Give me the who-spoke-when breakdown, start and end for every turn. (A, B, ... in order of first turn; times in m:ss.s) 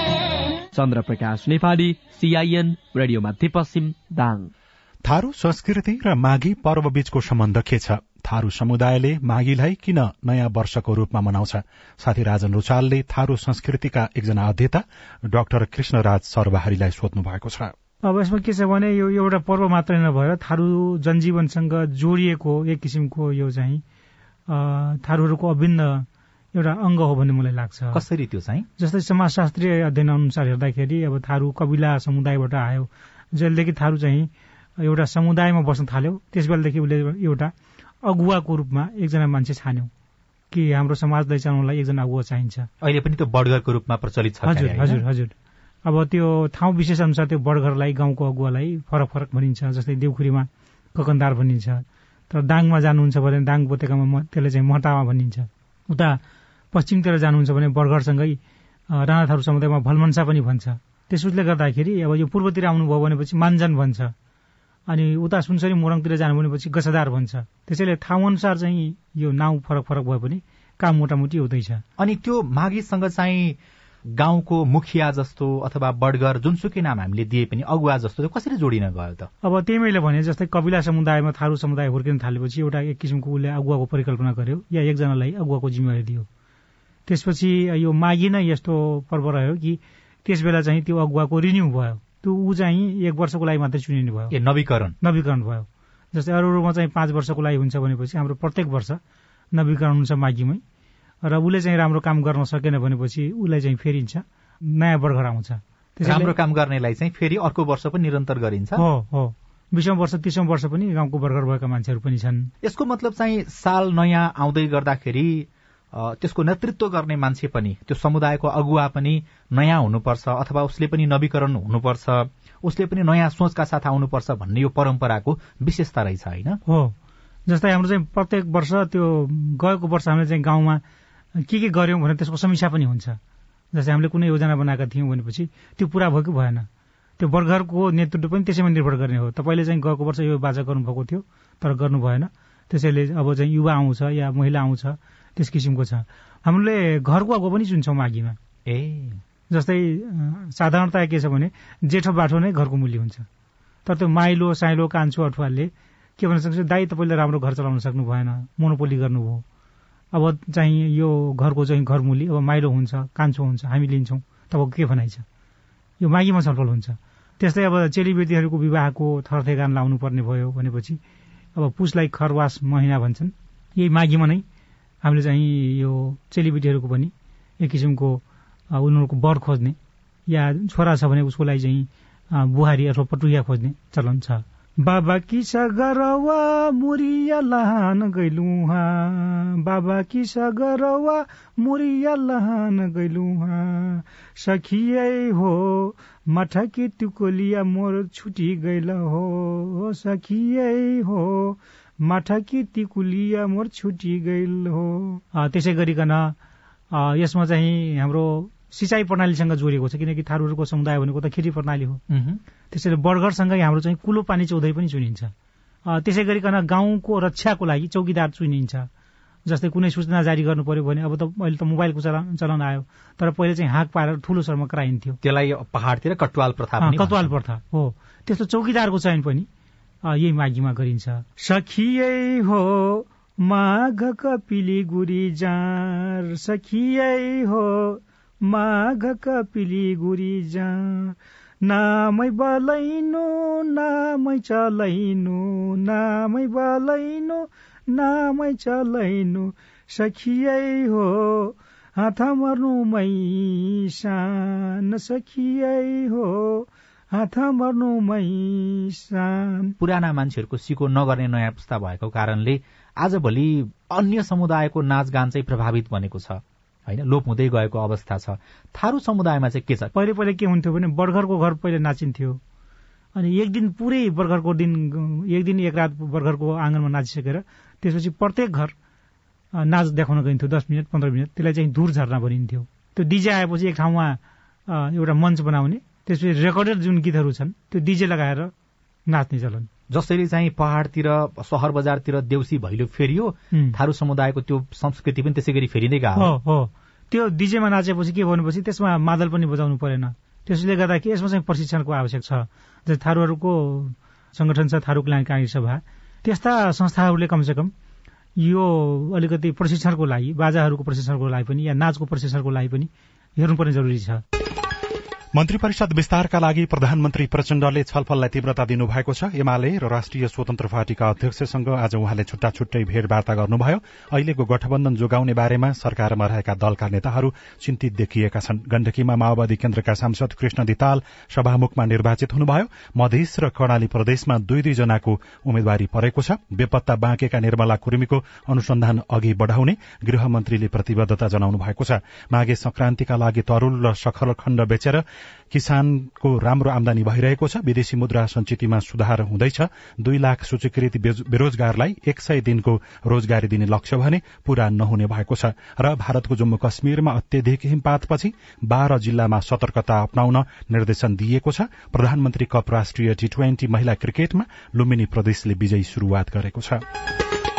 0:00.7-0:04.5 A
0:05.0-0:17.7 B
0:18.0-0:23.8 C
0:24.5-0:28.0 C
0:27.9-0:28.7 D
0:28.8-0:39.9 C
0:40.5-0:42.7 C
0:42.8-0:45.0 D
0:44.4-0:45.3 C
0:45.8-0:56.2 C
0:56.7-0:58.4 C
0:58.9-1:04.1 C
1:04.9-1:11.8 C
1:12.0-1:13.6 D
1:14.2-1:19.3 D
1:19.4-1:26.3 C
1:27.1-1:34.3 C
1:34.3-1:35.0 D
1:35.0-1:39.0 C
1:39.5-1:40.6 C
1:41.2-1:46.4 C
1:46.0-1:48.8 D
1:48.8-1:52.5 C
1:52.6-2:06.6 D
2:06.7-2:07.0 C
2:07.5-2:10.8 C
2:11.4-2:13.2 C
2:13.7-2:16.7 C
2:17.2-2:28.4 C
2:28.7-2:29.2 D
2:29.5-2:33.2 C
2:33.8-2:39.4 C
2:40.1-2:45.2 C
2:46.0-2:51.0 C
2:51.6-2:54.4 C
2:55.0-2:58.2 C
2:58.7-2:59.8 C
3:00.3-3:26.4 C
3:26.9-3:32.0 C
3:32.1-3:32.4 D
3:32.7-3:35.3 C
3:35.8-3:38.9 C
3:39.4-3:45.2 C
3:45.2-3:47.3 D
3:46.8-3:49.5 C
3:50.0-4:19.7 C
4:19.8-4:29.9 D
4:29.9-4:32.4 C
4:33.2-4:38.7 C
4:39.6-4:48.5 C
4:49.1-4:49.7 C
4:49.9-4:56.3 D
4:53.5-4:53.8 C
4:56.2-5:07.7 C
5:08.4-5:14.2 C
5:15.3-6:06.8 B